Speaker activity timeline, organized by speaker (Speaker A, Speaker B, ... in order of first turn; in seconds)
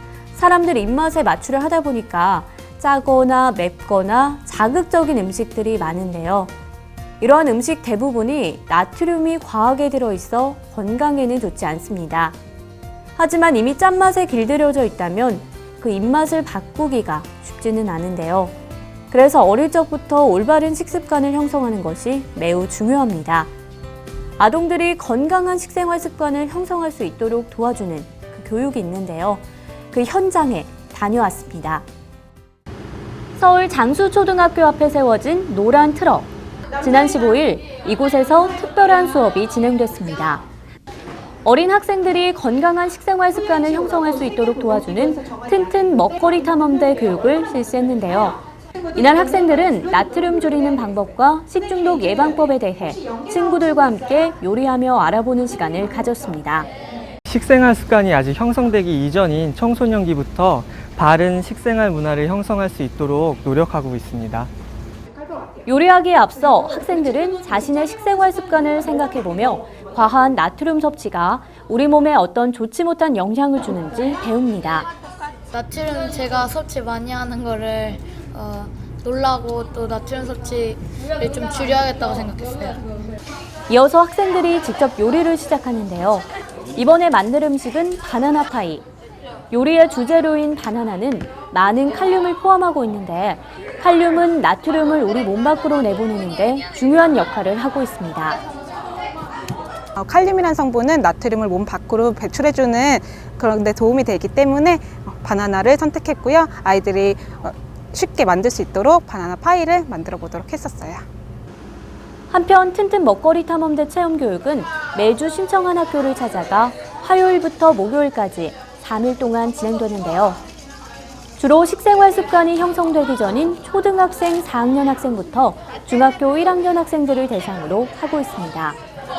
Speaker A: 0.3-6.5, 7.2-12.4, 13.2-18.5, 19.1-23.5, 24.4-31.9, 33.4-40.4, 41.5-48.4, 49.0-56.7, 65.7-74.9, 83.7-88.8, 89.5-98.4, 112.3-120.4, 121.4-128.8
Speaker B: 57.3-64.5
Speaker C: 75.5-82.8
Speaker D: 100.0-111.0